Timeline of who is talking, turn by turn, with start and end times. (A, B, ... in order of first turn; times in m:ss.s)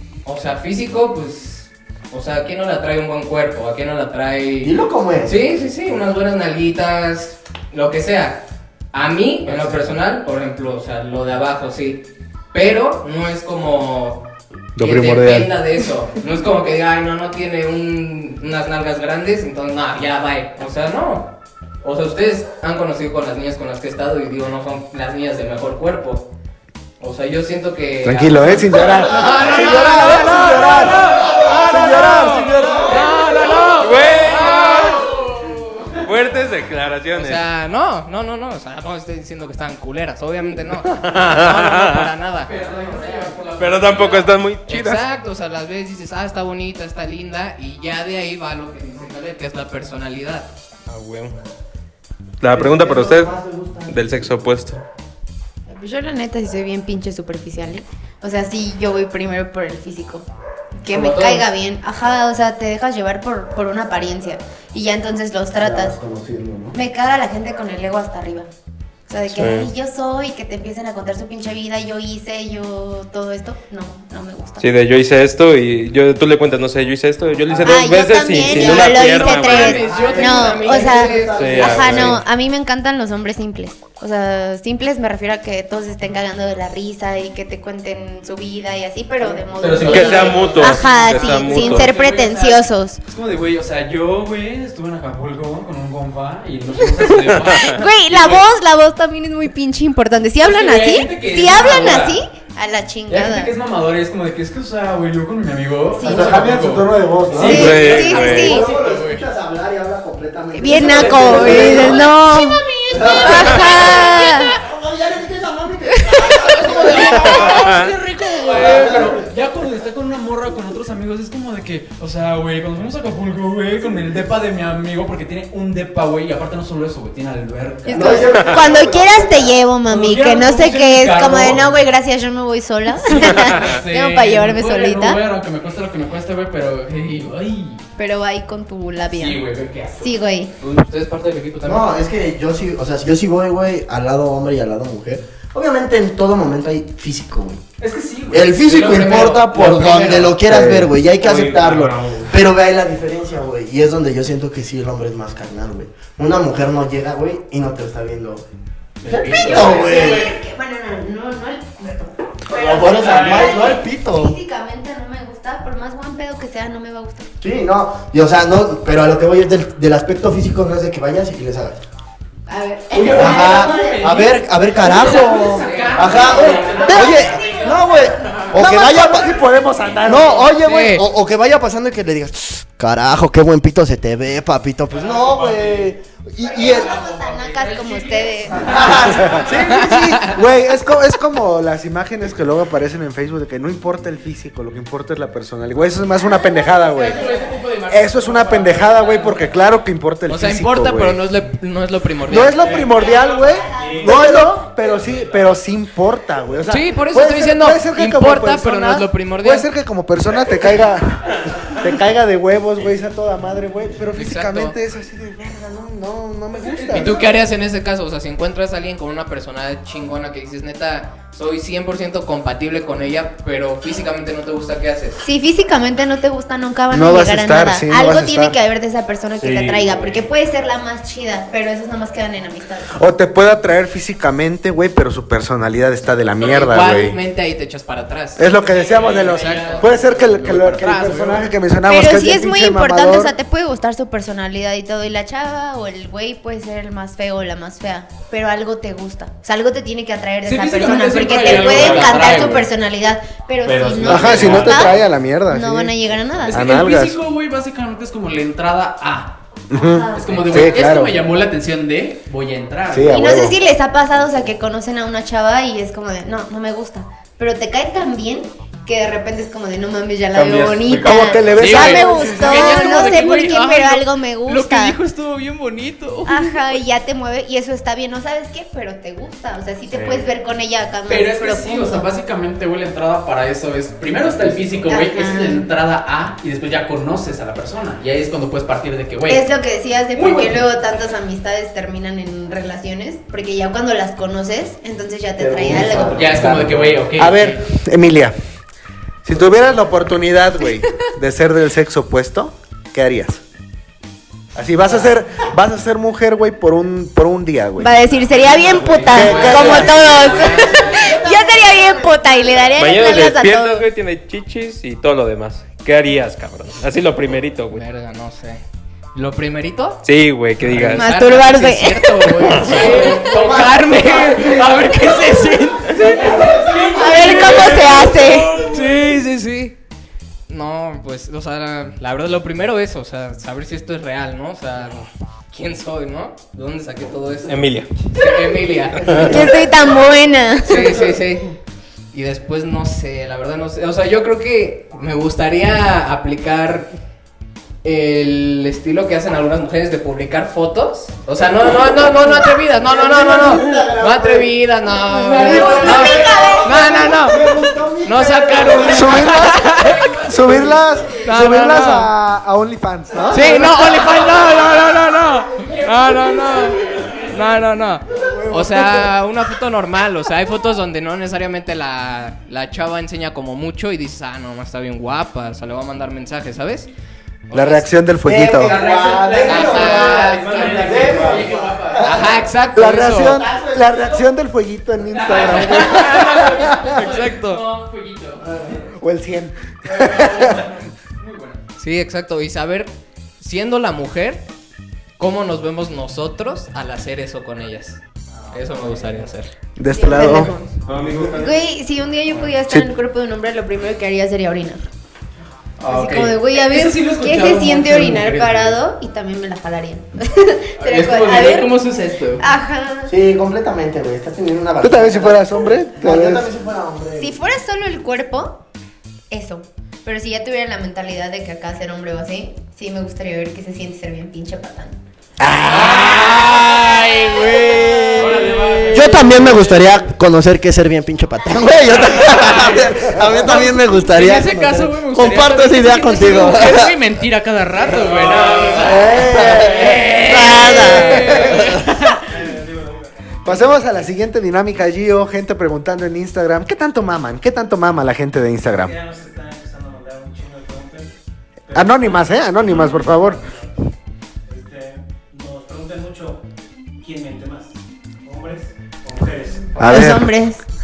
0:00.2-0:04.7 A
0:04.6-0:05.4 B
0:05.2-0:08.4 A
0:08.9-0:14.2 A
0:14.8-0:15.5 C
0:14.8-0:21.3 A
0:21.8-0:26.2 A
0:27.0-0:35.0 A
0:28.0-0:32.9 C
0:30.5-0:31.7 D
0:32.6-0:33.0 B
0:32.9-0:36.0 D
0:33.8-0:35.0 E
0:36.0-0:37.4 E
0:37.1-0:43.5 A
0:40.9-0:42.1 E
0:42.5-0:44.3 D
0:43.6-0:45.0 E
0:44.6-0:50.5 A
0:50.9-0:51.4 E
0:52.4-0:53.3 E
0:52.5-0:54.0 B
0:53.9-0:54.8 E
0:55.7-1:00.3 F
1:00.8-1:06.0 F
1:00.9-1:01.5 A
1:05.6-1:06.7 B
1:06.7-1:08.5 F
1:09.1-1:14.7 F
1:09.3-1:09.7 E
1:14.6-1:19.8 E
1:17.5-1:17.8 B
1:17.6-1:33.0 F
1:18.4-1:22.2 B
1:19.1-1:21.6 A
1:21.3-1:22.2 E
1:29.5-1:38.4 D
1:29.8-1:31.9 E
1:37.3-1:38.4 E
1:37.6-1:43.5 F
1:40.4-1:42.2 D
1:43.1-1:49.2 D
1:45.9-1:46.4 F
1:46.0-1:47.8 C
1:47.4-1:52.1 B
1:47.4-1:48.6 F
1:47.4-1:48.6 E
1:50.5-1:54.6 F
1:50.6-1:54.3 D
1:52.9-1:59.2 B
1:56.0-1:56.4 F
1:56.5-2:08.3 D
1:57.2-1:57.9 E
1:57.2-1:57.5 F
2:07.8-2:15.2 F
2:07.9-2:09.6 B
2:08.3-2:08.6 E
2:09.9-2:11.7 D
2:13.2-2:17.8 D
2:13.2-2:13.8 E
2:18.0-2:19.4 F
2:19.1-2:20.6 D
2:20.0-2:20.5 F
2:20.6-2:21.9 A
2:21.6-2:27.6 B
2:27.8-2:28.8 D
2:28.3-2:38.4 B
2:28.6-2:30.4 A
2:30.4-2:30.9 C
2:31.2-2:32.3 E
2:39.0-2:40.3 D
2:39.0-2:40.4 B
2:39.3-2:47.3 F
2:42.5-2:44.4 B
2:47.4-2:51.8 B
2:52.5-2:54.4 F
2:52.9-2:57.7 D
2:53.0-2:59.3 B
2:54.9-2:57.5 A
2:56.1-2:58.7 F
2:58.5-3:00.6 C
3:00.0-3:07.0 B
3:00.6-3:01.1 A
3:04.9-3:05.9 E
3:06.4-3:09.0 F
3:06.7-3:09.5 D
3:08.6-3:10.2 B
3:09.1-3:17.2 C
3:09.8-3:10.3 A
3:16.4-3:17.5 F
3:16.9-3:19.6 D
3:17.9-3:21.2 C
3:20.3-3:22.8 A
3:22.2-3:37.2 C
3:22.4-3:24.1 G
3:22.7-3:24.4 F
3:24.8-3:25.4 E
3:26.7-3:29.7 A
3:34.1-3:34.7 A
3:36.5-3:37.3 D
3:36.9-3:45.2 A
3:45.2-3:53.0 F
3:46.9-3:48.5 C
3:49.4-3:50.1 E
3:52.9-3:57.2 C
3:56.4-3:58.6 A
3:58.4-4:03.3 C
3:58.5-4:01.5 D
3:59.2-3:59.9 A
4:01.8-4:16.6 F
4:10.4-4:12.6 D
4:11.4-4:12.6 E
4:13.6-4:15.0 E
4:14.0-4:14.5 D
4:14.0-4:15.9 C
4:16.5-4:19.4 D
4:16.5-4:17.2 C
4:19.7-4:21.1 C
4:19.7-4:20.8 F
4:20.1-4:23.2 D
4:22.9-4:23.6 C
4:23.1-4:35.0 F
4:30.3-4:31.9 E
4:31.0-4:32.7 C
4:31.6-4:36.8 D
4:36.2-4:42.1 F
4:39.9-4:40.3 E
4:41.1-4:49.4 D
4:44.8-4:45.7 F
4:49.3-4:56.5 F
4:50.1-4:50.6 D
4:55.4-4:57.0 B
4:55.8-4:58.3 C
4:56.1-4:57.6 D
4:59.2-5:03.4 C
5:04.5-5:08.0 C
5:07.8-5:13.8 F
5:08.7-5:11.2 A
5:08.9-5:11.1 D
5:09.0-5:10.0 C
5:09.5-5:12.7 B
5:12.8-5:17.8 E
5:17.7-5:18.6 A
5:19.1-5:20.0 A
5:20.0-5:21.1 E
5:20.6-5:26.5 A
5:20.9-5:22.5 F
5:22.6-5:23.6 D
5:22.7-5:25.2 B
5:25.7-5:28.2 D
5:25.9-5:28.2 B
5:26.9-5:28.6 F
5:27.1-5:27.9 A
5:27.9-5:28.8 E
5:28.6-5:29.8 A
5:30.5-5:37.6 A
5:37.5-5:38.0 E
5:38.1-5:39.5 A
5:39.0-5:39.3 E
5:39.1-5:39.6 B
5:39.1-5:41.0 F
5:40.6-5:41.6 A
5:42.1-5:46.9 A
5:47.8-6:00.2 A
5:52.8-5:54.5 B
5:55.3-5:59.3 B
5:55.3-5:57.1 F
5:58.8-6:03.7 C
5:59.2-6:00.8 D
6:01.2-6:02.1 A
6:03.2-6:03.6 B
6:03.3-6:16.9 A
6:03.6-6:04.2 D
6:05.5-6:07.5 D
6:08.4-6:09.1 C
6:17.5-6:17.9 A
6:17.5-6:18.8 C
6:18.2-6:22.4 B
6:18.6-6:22.2 D
6:19.4-6:21.4 A
6:20.4-6:21.5 E
6:22.0-6:23.4 A
6:22.7-6:27.0 C
6:23.3-6:24.1 B
6:25.1-6:28.8 D
6:25.3-6:27.7 A
6:28.6-6:30.7 C
6:29.9-6:31.6 D
6:31.8-6:34.4 A
6:35.2-6:38.0 A
6:38.4-6:39.2 D
6:38.5-6:39.5 A
6:39.8-6:40.5 C
6:39.9-6:40.7 F
6:40.8-6:41.6 E
6:41.3-6:44.9 F
6:45.8-6:48.8 D
6:45.9-6:51.8 F
6:50.8-6:52.4 D
6:52.4-6:53.1 F
6:53.1-6:57.4 B
6:54.8-6:56.5 C
6:57.2-6:58.6 F
6:59.3-7:05.0 F
7:05.6-7:09.7 D
7:08.2-7:09.1 E
7:08.9-7:16.9 B
7:12.2-7:12.8 D
7:13.4-7:22.2 D
7:18.0-7:19.0 E
7:18.8-7:20.0 C
7:19.3-7:21.9 B
7:22.2-7:23.9 G
7:23.4-7:29.0 C
7:28.7-7:31.1 G
7:31.6-7:33.8 G
7:31.7-7:33.4 C
7:34.5-7:36.4 G
7:37.0-7:39.8 G
7:39.8-7:40.3 C
7:39.8-7:40.6 F